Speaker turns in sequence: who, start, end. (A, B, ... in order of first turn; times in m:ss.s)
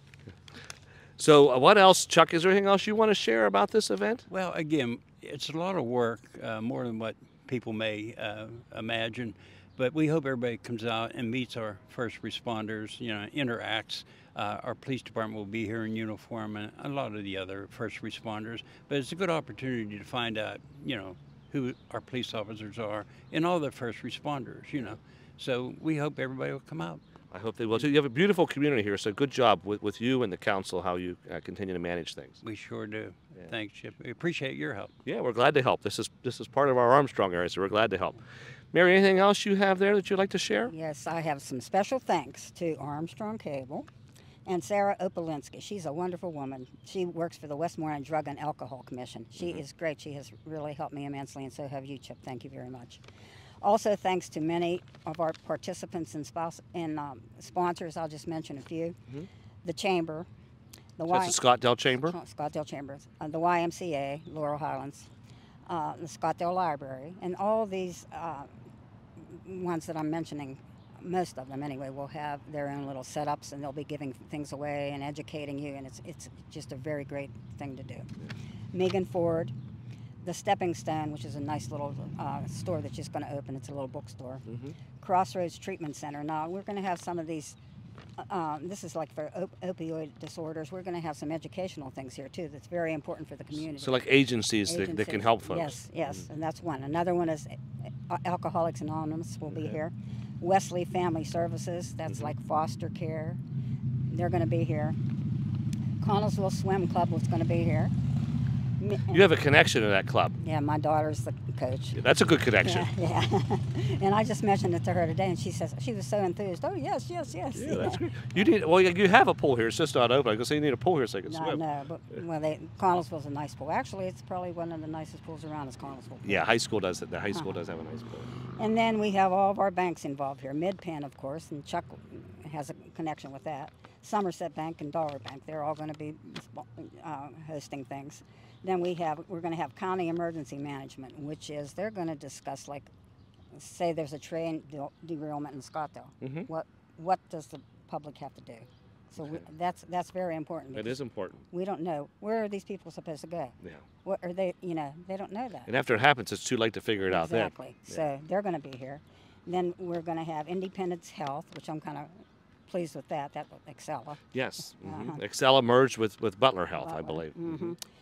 0:01.2-0:04.2 A
0:04.3-0:27.0 B
0:27.3-0:32.4 A
0:32.4-0:34.9 B
0:35.0-0:38.2 A
0:38.7-0:40.7 A
0:40.6-0:43.9 C
0:44.4-0:53.0 C
0:53.6-0:59.0 C
0:59.6-1:00.3 C
1:01.0-1:01.4 C
1:01.1-1:02.2 A
1:02.0-1:05.1 C
1:05.6-1:08.5 C
1:09.2-1:18.1 C
1:18.7-1:19.5 C
1:20.2-1:24.5 C
1:24.5-1:24.7 A
1:25.0-1:27.6 C
1:28.2-1:34.0 C
1:33.8-1:35.8 A
1:34.6-1:43.4 C
1:44.1-1:45.0 C
1:46.0-1:47.9 C
1:48.8-1:49.3 C
1:49.1-1:50.4 A
1:50.4-1:52.0 C
1:51.9-1:52.9 A
1:52.6-1:58.1 C
1:57.5-2:01.6 A
2:01.3-2:06.5 C
2:06.2-2:08.3 A
2:08.6-2:22.9 C
2:23.5-2:31.0 C
2:26.2-2:26.5 A
2:30.7-2:31.4 A
2:31.5-2:35.7 C
2:35.7-2:38.0 A
2:37.1-2:44.2 C
2:44.3-2:47.7 A
2:44.8-2:45.2 C
2:46.8-2:47.8 C